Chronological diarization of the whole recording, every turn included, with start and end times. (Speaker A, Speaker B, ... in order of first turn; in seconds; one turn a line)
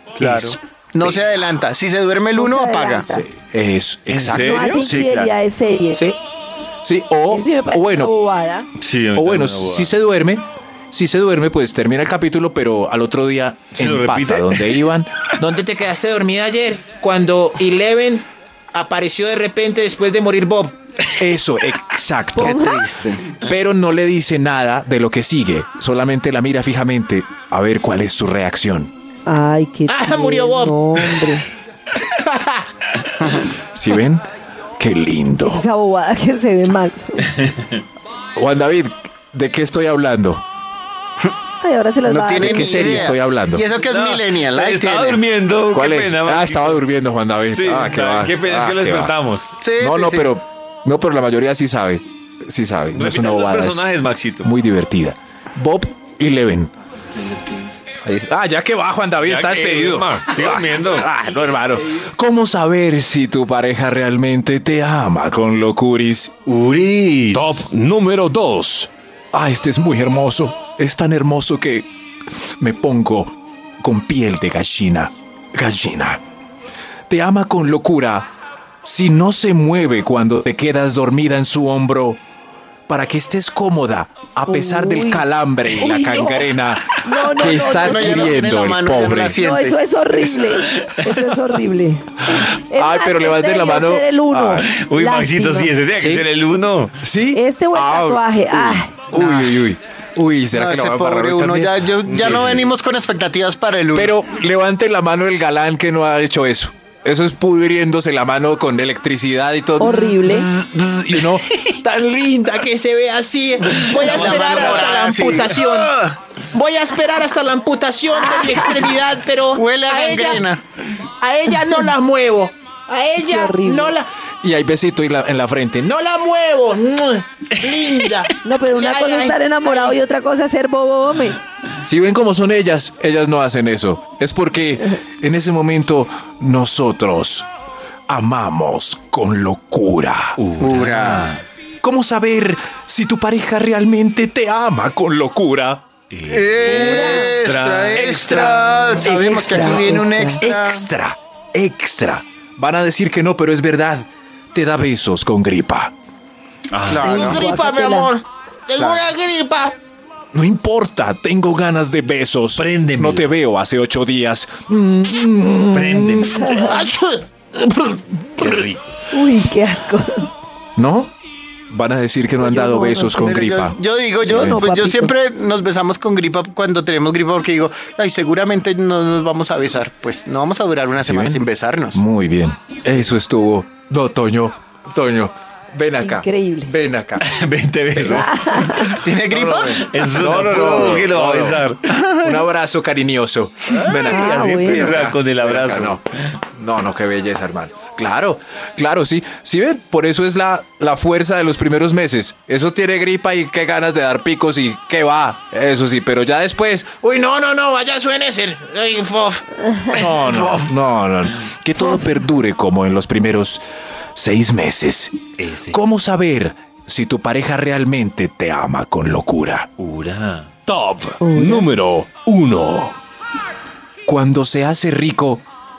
Speaker A: 0.2-1.2
Speaker B: 0.2-3.1
Speaker C: 2.3-3.3
Speaker A: 3.1-5.0
Speaker D: 4.1-4.9
Speaker C: 4.3-6.0
Speaker B: 4.8-5.3
Speaker A: 6.8-8.1
Speaker C: 7.3-8.7
Speaker D: 8.8-10.0
Speaker A: 9.1-15.3
Speaker D: 13.7-14.9
Speaker E: 15.4-20.7
Speaker A: 21.2-22.6
Speaker C: 22.4-22.8
Speaker B: 22.4-23.3
Speaker A: 23.3-28.9
Speaker C: 29.2-31.4
Speaker E: 29.9-31.2
Speaker E: 32.2-32.6
Speaker B: 33.2-33.5
Speaker A: 33.6-34.3
Speaker A: 34.8-35.7
Speaker C: 35.4-37.3
Speaker A: 38.3-40.4
Speaker C: 41.6-43.1
Speaker B: 42.0-45.2
Speaker A: 42.4-43.7
Speaker D: 43.8-46.8
Speaker A: 45.7-49.1
Speaker D: 47.5-49.5
Speaker B: 49.6-50.3
Speaker A: 49.8-53.8
Speaker D: 52.9-54.5
Speaker A: 54.4-56.7
Speaker A: 58.0-66.3
Speaker D: 59.2-61.1
Speaker D: 66.5-67.7
Speaker F: 67.3-68.9
Speaker A: 69.3-76.2
Speaker A: 77.1-78.3
Speaker A: 78.8-82.2
Speaker A: 82.9-89.4
Speaker C: 84.5-88.3
Speaker B: 87.7-89.8
Speaker C: 89.3-95.7
Speaker D: 90.4-91.4
Speaker A: 92.4-94.7
Speaker D: 94.6-97.0
Speaker A: 96.0-96.2
Speaker A: 97.0-101.8
Speaker C: 97.3-99.0
Speaker B: 99.1-99.6
Speaker B: 100.5-104.1
Speaker D: 102.0-102.7
Speaker A: 103.9-115.6
Speaker C: 109.8-110.5
Speaker E: 112.8-115.9
Speaker B: 113.8-116.2
Speaker D: 113.8-115.1
Speaker E: 116.5-120.4
Speaker C: 118.1-118.8
Speaker B: 119.5-120.6
Speaker E: 121.2-124.0
Speaker C: 123.2-123.9
Speaker A: 124.4-126.0
Speaker E: 126.0-129.9
Speaker C: 128.4-131.4
Speaker A: 131.8-137.5
Speaker A: 138.1-140.4
Speaker D: 140.4-141.4
Speaker B: 140.6-141.4
Speaker A: 141.8-145.8
Speaker D: 146.1-148.7
Speaker B: 146.2-150.9
Speaker C: 146.6-147.4
Speaker A: 147.9-155.9
Speaker C: 149.0-150.4
Speaker D: 156.7-157.1
Speaker B: 156.9-158.1
Speaker C: 157.0-158.1
Speaker E: 157.1-157.5
Speaker E: 158.0-159.7
Speaker A: 158.8-159.1
Speaker A: 160.3-166.6
Speaker D: 162.6-163.3
Speaker D: 165.7-166.4
Speaker C: 166.2-166.9
Speaker E: 166.5-167.2
Speaker A: 167.5-168.6
Speaker D: 168.4-168.8
Speaker C: 169.1-170.3
Speaker A: 170.8-171.1
Speaker A: 171.7-174.6
Speaker C: 172.4-173.4
Speaker B: 173.2-182.0
Speaker C: 174.2-175.1
Speaker A: 181.0-187.2
Speaker C: 186.0-186.7
Speaker D: 187.2-189.0
Speaker A: 187.9-191.6
Speaker C: 188.1-188.9
Speaker B: 188.8-189.9
Speaker D: 189.8-191.8
Speaker B: 191.9-192.4
Speaker A: 192.2-196.0
Speaker D: 193.7-196.1
Speaker C: 194.1-194.9
Speaker A: 196.5-207.1
Speaker E: 207.0-209.4
Speaker A: 209.9-213.6
Speaker B: 210.3-210.6
Speaker A: 214.1-215.2
Speaker D: 215.4-215.8
Speaker A: 215.7-219.7
Speaker D: 219.8-220.5
Speaker F: 220.7-223.0
Speaker C: 221.2-221.7
Speaker A: 224.1-225.4